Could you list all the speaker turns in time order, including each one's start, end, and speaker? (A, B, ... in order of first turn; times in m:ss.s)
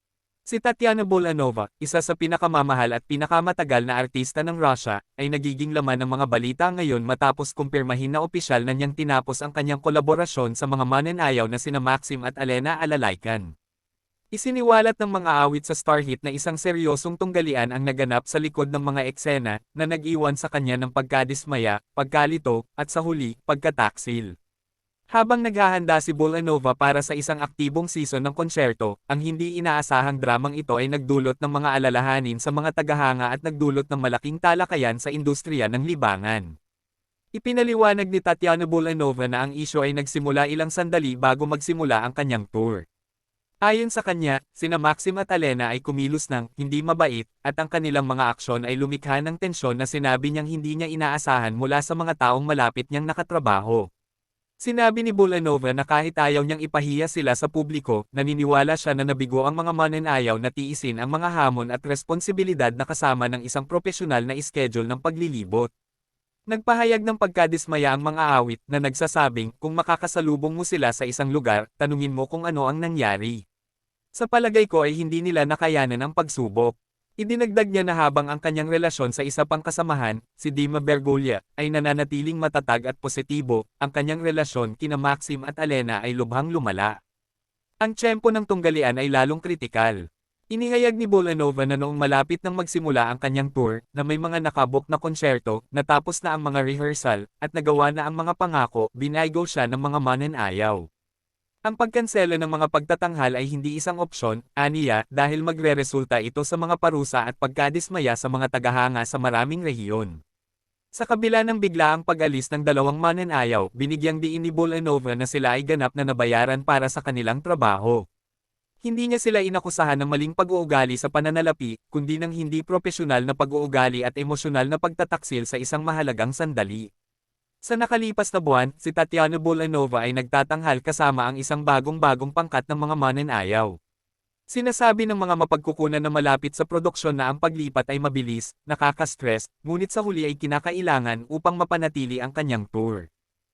0:00.5-0:13.5 A
0:14.3-0:24.3 A
0:25.1-0:36.5 A
0:37.3-0:42.8 A
0:43.7-0:53.8 A
0:54.6-1:05.7 A
1:06.5-1:13.4 A
1:14.2-1:27.0 A
1:27.8-1:30.0 A
1:30.5-1:40.8 A
1:41.6-1:50.2 A
1:51.0-1:58.0 A
1:58.8-2:06.9 A
2:07.6-2:13.7 A
2:14.5-2:23.0 A